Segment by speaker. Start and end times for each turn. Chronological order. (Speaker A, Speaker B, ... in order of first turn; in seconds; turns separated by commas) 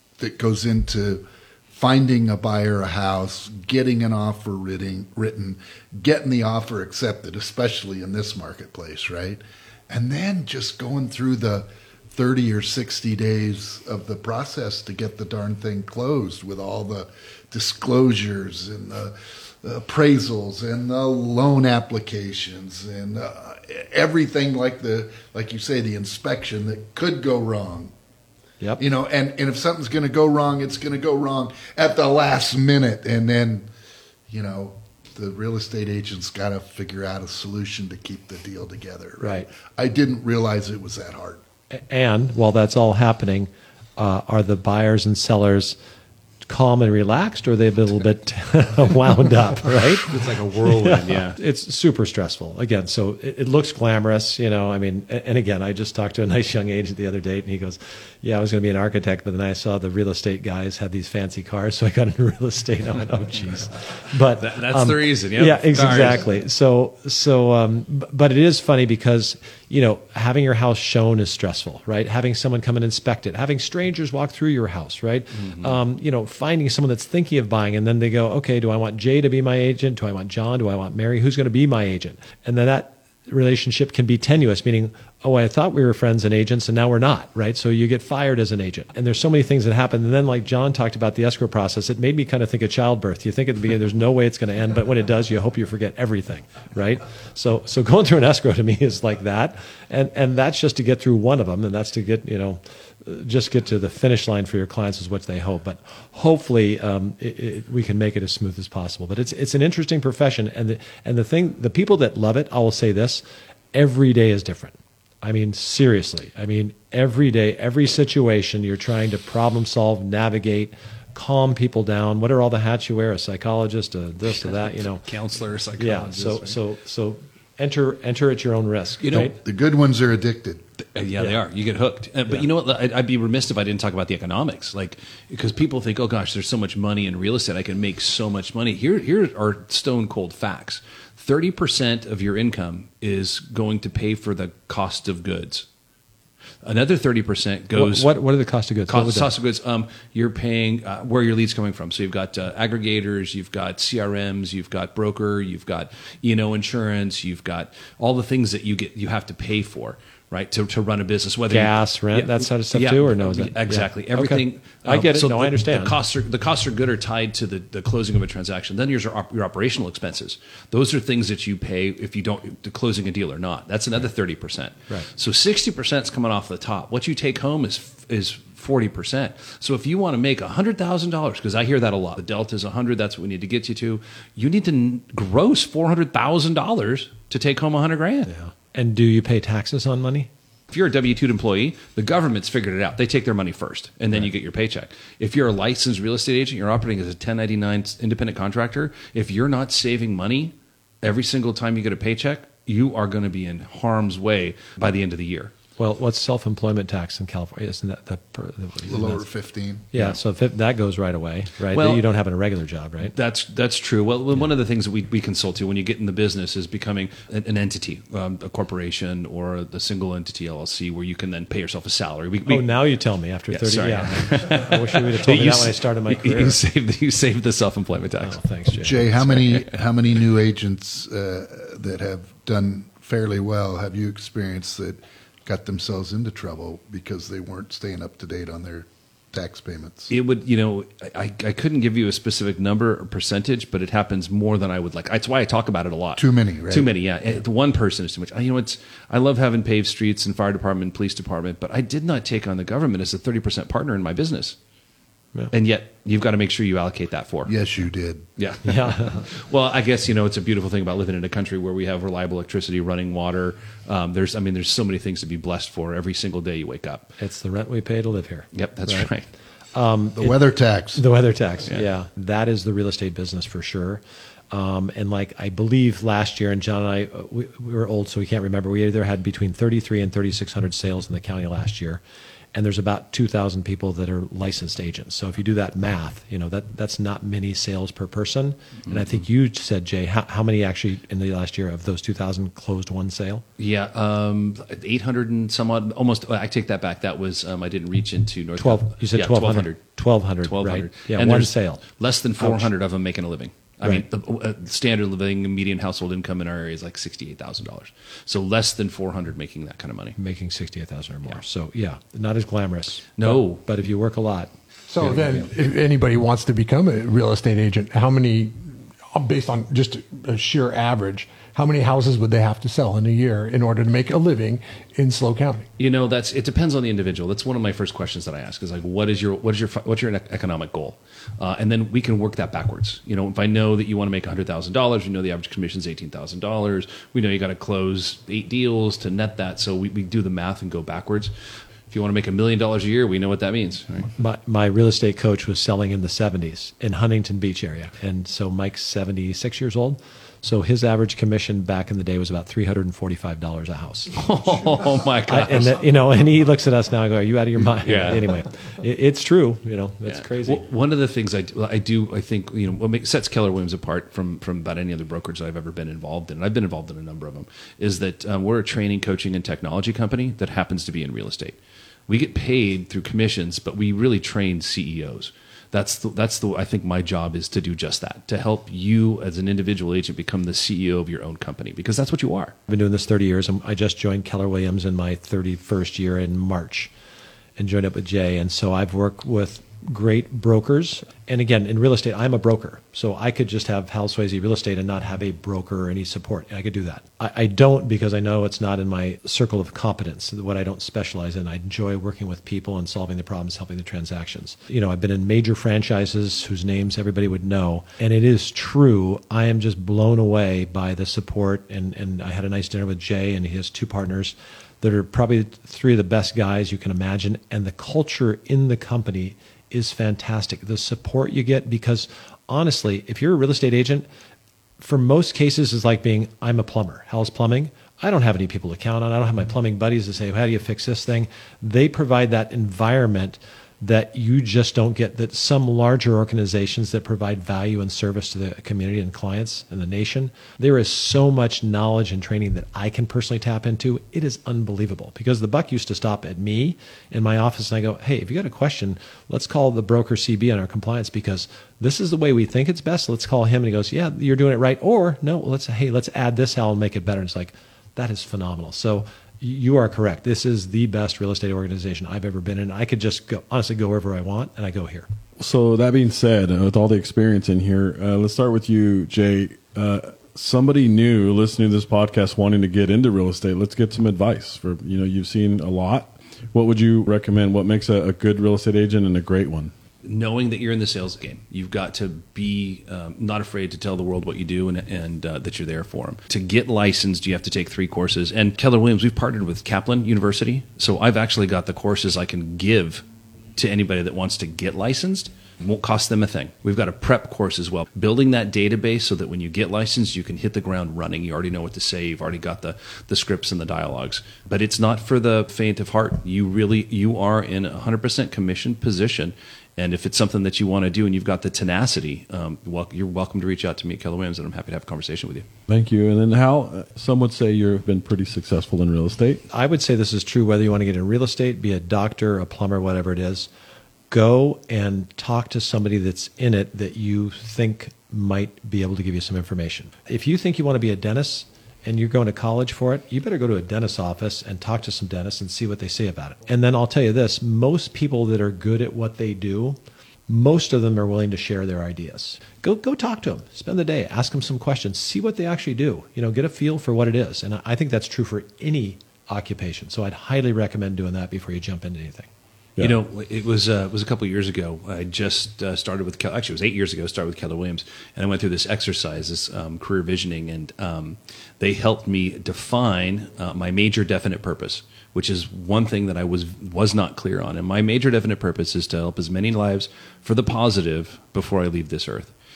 Speaker A: 0.2-27.9, Speaker A: 28.8-33.7, Speaker A: 34.3-41.4, Speaker B: 39.2-39.5, Speaker B: 41.7-45.8, Speaker B: 46.5-50.1, Speaker C: 50.0-51.4, Speaker B: 50.6-113.2, Speaker C: 64.3-66.2, Speaker C: 75.3-75.8, Speaker B: 113.7-125.0, Speaker C: 124.4-126.6, Speaker B: 125.8-129.4, Speaker C: 129.0-129.3, Speaker A: 129.2-130.6, Speaker C: 130.9-145.7, Speaker C: 146.6-148.1, Speaker B: 147.7-149.3, Speaker C: 148.9-188.3, Speaker B: 161.5-165.9, Speaker B: 188.3-190.3, Speaker C: 190.7-205.5, Speaker B: 205.8-209.2, Speaker A: 208.8-209.9, Speaker B: 209.9-213.1, Speaker C: 211.7-212.0, Speaker C: 213.0-222.8, Speaker B: 222.5-226.6, Speaker C: 223.5-228.4, Speaker B: 228.2-229.1, Speaker A: 228.8-240.1, Speaker C: 229.3-229.7, Speaker C: 240.1-254.6, Speaker A: 246.2-246.9, Speaker C: 255.5-257.6, Speaker A: 257.5-258.3, Speaker C: 258.4-267.1, Speaker B: 258.6-259.3, Speaker B: 267.2-269.1, Speaker C: 268.5-269.3, Speaker B: 269.8-270.4, Speaker A: 270.2-271.0, Speaker B: 270.9-282.0, Speaker B: 282.5-293.4, Speaker C: 288.9-289.2, Speaker C: 293.6-299.8, Speaker B: 298.6-301.8, Speaker C: 300.4-310.2, Speaker B: 302.4-302.7, Speaker B: 310.2-314.5, Speaker C: 313.2-313.6, Speaker D: 314.9-325.7, Speaker C: 315.0-315.5, Speaker C: 325.8-341.3, Speaker C: 341.9-344.1, Speaker B: 344.2-354.2, Speaker C: 354.2-355.8, Speaker B: 355.3-360.6, Speaker C: 357.8-358.4, Speaker C: 360.1-371.6, Speaker C: 372.1-382.6, Speaker B: 382.7-386.9, Speaker B: 387.6-424.1, Speaker B: 424.8-465.1, Speaker E: 465.4-479.7, Speaker C: 480.0-493.1, Speaker C: 493.6-515.5, Speaker E: 515.7-519.4, Speaker B: 519.5-523.5, Speaker B: 524.1-552.3, Speaker C: 552.8-572.3